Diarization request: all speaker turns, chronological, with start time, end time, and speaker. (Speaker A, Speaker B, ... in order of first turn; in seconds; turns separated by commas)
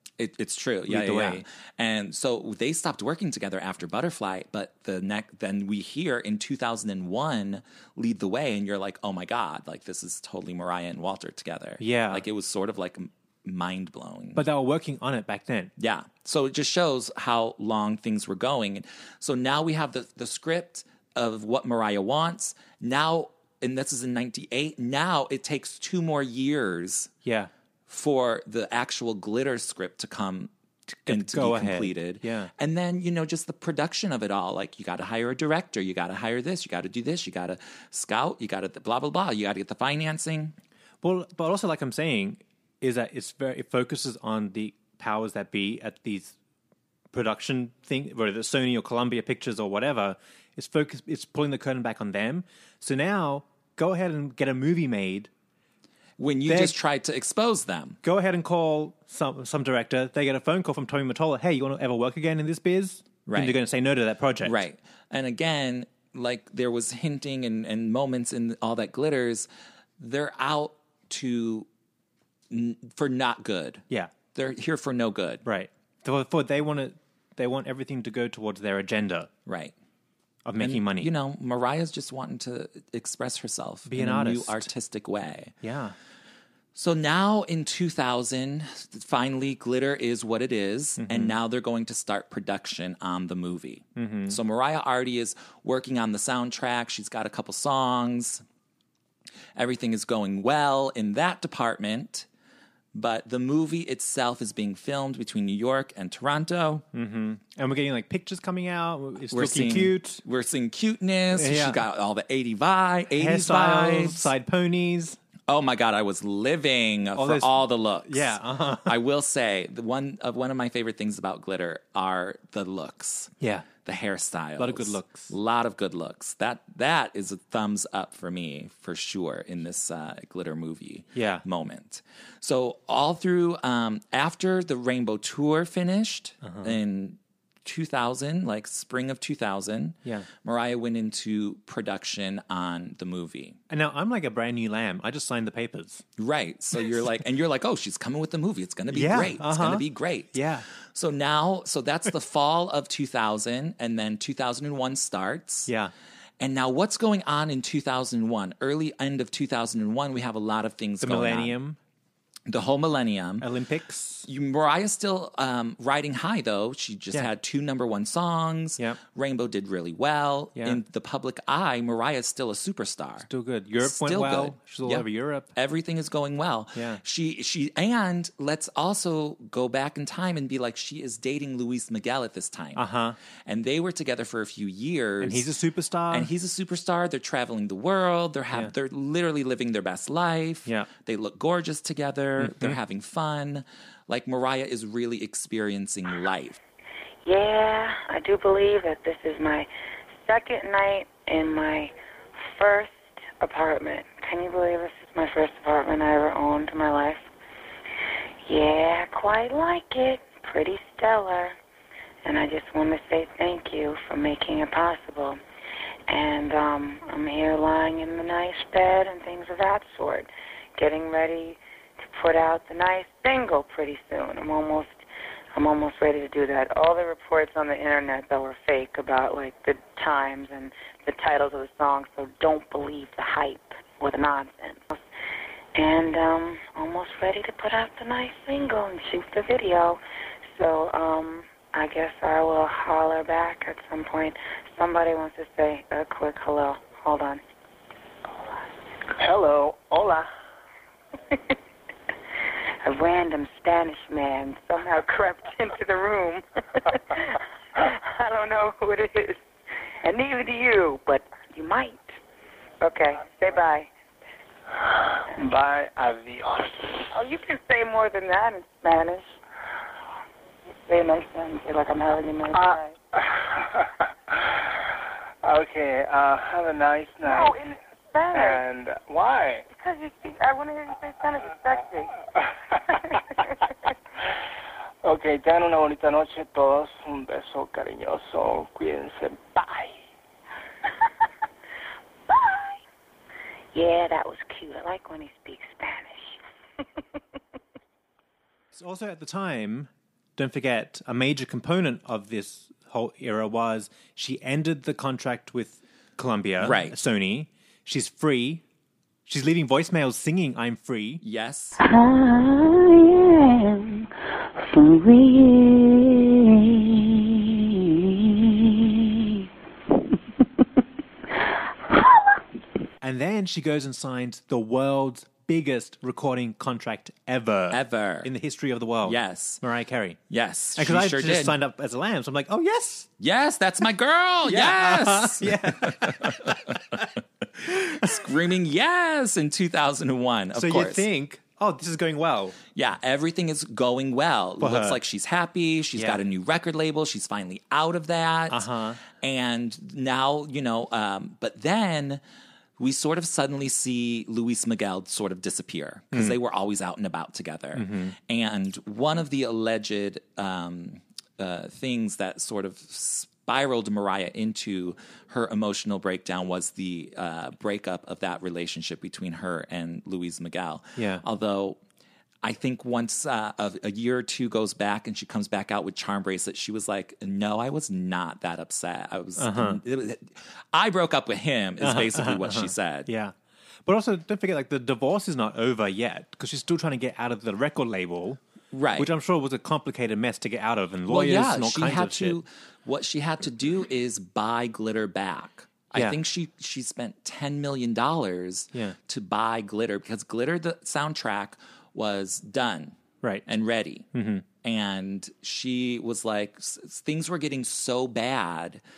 Speaker A: 0.2-14.4, Speaker B: 0.9-1.4, Speaker B: 11.8-12.2, Speaker B: 14.3-15.7, Speaker A: 15.8-27.1, Speaker B: 27.2-27.5, Speaker A: 27.9-40.5, Speaker B: 31.1-32.5, Speaker B: 41.0-46.4, Speaker B: 47.1-55.3, Speaker A: 56.2-58.0, Speaker B: 56.5-56.8, Speaker B: 58.0-64.6, Speaker A: 63.3-63.6, Speaker A: 64.4-69.5, Speaker A: 70.0-71.7, Speaker A: 72.5-75.4, Speaker B: 75.5-79.3, Speaker A: 79.5-79.7, Speaker B: 80.5-81.1, Speaker A: 80.6-85.6, Speaker B: 83.9-84.7, Speaker B: 85.6-86.0, Speaker A: 86.7-98.4, Speaker B: 91.0-91.3, Speaker B: 94.0-94.4, Speaker A: 99.6-102.3, Speaker A: 102.9-106.8, Speaker B: 106.9-110.2, Speaker A: 109.3-114.3, Speaker B: 111.3-111.8, Speaker B: 113.2-115.2, Speaker A: 115.5-123.3, Speaker B: 117.2-119.0, Speaker B: 123.4-123.7, Speaker A: 123.8-143.6, Speaker B: 124.6-125.3, Speaker B: 131.2-131.4, Speaker B: 136.4-136.8, Speaker B: 143.7-146.0, Speaker A: 146.2-155.7, Speaker B: 148.9-150.7, Speaker B: 155.7-155.9, Speaker A: 156.4-161.6, Speaker B: 161.0-161.8, Speaker A: 162.5-163.5, Speaker B: 163.4-164.3, Speaker A: 164.3-173.3, Speaker B: 173.2-175.5, Speaker A: 173.8-182.8, Speaker B: 176.8-177.0, Speaker B: 182.8-183.2, Speaker A: 183.4-185.5, Speaker B: 185.2-186.3, Speaker A: 186.1-196.6, Speaker B: 192.4-192.8, Speaker C: 197.2-207.3, Speaker C: 208.5-211.6, Speaker C: 212.2-215.4, Speaker C: 216.1-225.0, Speaker C: 225.5-235.0, Speaker C: 235.8-240.0, Speaker C: 240.5-247.4, Speaker D: 249.2-250.3, Speaker C: 252.8-259.4, Speaker C: 260.0-262.1, Speaker C: 262.8-263.9, Speaker D: 265.3-267.1, Speaker C: 267.1-269.3, Speaker C: 270.9-273.0, Speaker D: 272.5-274.6, Speaker D: 275.4-277.6, Speaker C: 277.3-278.6, Speaker D: 278.3-279.7, Speaker C: 279.7-282.2, Speaker D: 282.9-283.2, Speaker C: 282.9-283.5, Speaker D: 285.0-290.0, Speaker C: 292.3-292.8, Speaker C: 293.7-296.4, Speaker B: 298.7-308.6, Speaker A: 306.6-307.0, Speaker B: 309.3-311.2, Speaker A: 311.2-311.8, Speaker C: 311.8-314.1, Speaker C: 314.7-319.4, Speaker B: 323.0-330.2, Speaker A: 327.7-328.3, Speaker A: 329.0-329.6, Speaker A: 330.3-331.6, Speaker B: 330.8-333.1, Speaker A: 333.2-341.1, Speaker B: 334.4-337.1, Speaker B: 337.7-338.2, Speaker B: 340.6-342.6, Speaker A: 342.8-352.2, Speaker B: 344.6-345.0, Speaker B: 346.0-346.2, Speaker B: 348.5-349.0, Speaker A: 352.8-371.8, Speaker B: 356.1-356.4, Speaker B: 357.7-358.2, Speaker B: 371.0-371.2, Speaker A: 372.4-383.1, Speaker B: 379.4-379.8, Speaker B: 381.8-383.3, Speaker B: 383.9-388.4, Speaker A: 388.7-389.1, Speaker B: 389.0-392.4, Speaker A: 391.1-404.1, Speaker B: 395.9-396.2, Speaker B: 403.2-403.5, Speaker B: 404.1-404.5, Speaker A: 404.6-408.8